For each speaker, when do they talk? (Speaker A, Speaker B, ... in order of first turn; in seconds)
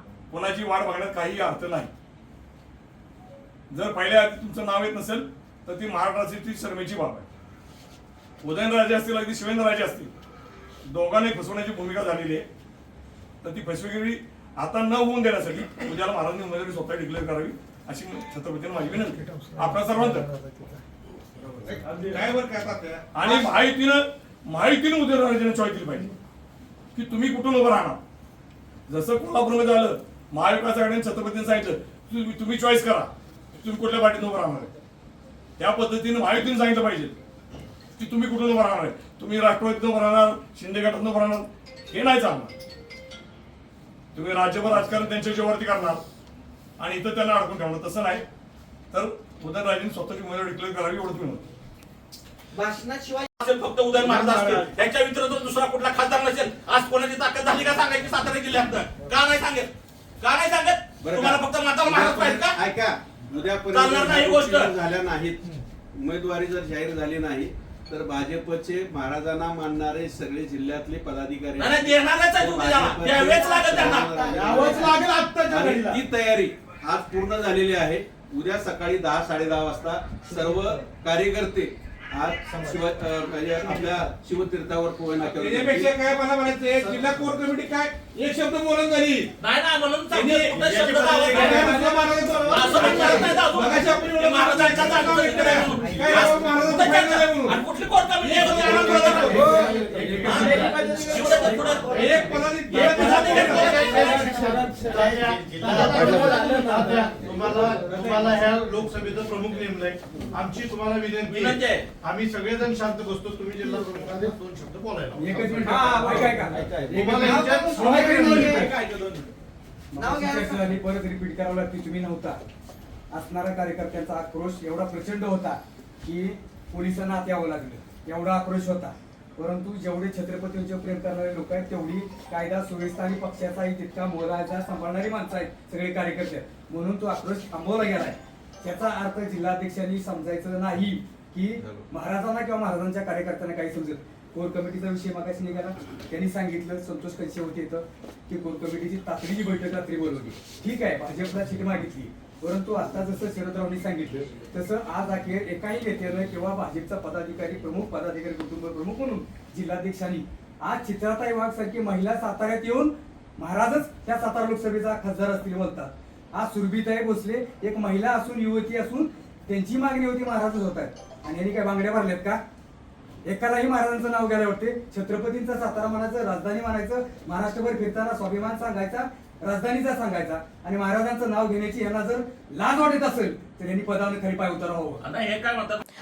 Speaker A: 0.3-1.9, 3.7-7.3, 8.4-10.1, 10.9-12.4, 13.4-20.3, 23.1-26.1, 26.9-28.0, 28.9-34.7, 35.6-37.2, 38.0-42.5, 44.1-46.0, 46.8-48.2, 48.9-51.4
Speaker B: 22.0-22.3, 22.9-23.5, 74.3-76.0, 85.3-89.3, 90.1-90.7, 91.2-97.6, 98.2-99.8, 101.9-104.2
Speaker C: 52.5-53.3, 73.4-74.9, 95.8-96.6, 100.3-102.2, 117.2-118.6, 120.0-120.6
Speaker D: 53.4-59.7, 60.2-62.5, 63.7-64.7, 71.5-74.1, 89.4-91.8, 92.5-99.5, 100.2-104.5, 111.2-111.8, 118.5-119.2, 185.0-185.8
Speaker E: 54.0-54.7, 61.0-65.4, 65.9-86.0, 91.1-91.7, 92.7-93.2, 141.6-141.9
Speaker F: 98.7-101.2, 102.8-118.7
Speaker G: 115.1-117.2, 117.9-118.7, 119.9-122.4, 123.1-172.4, 173.2-185.0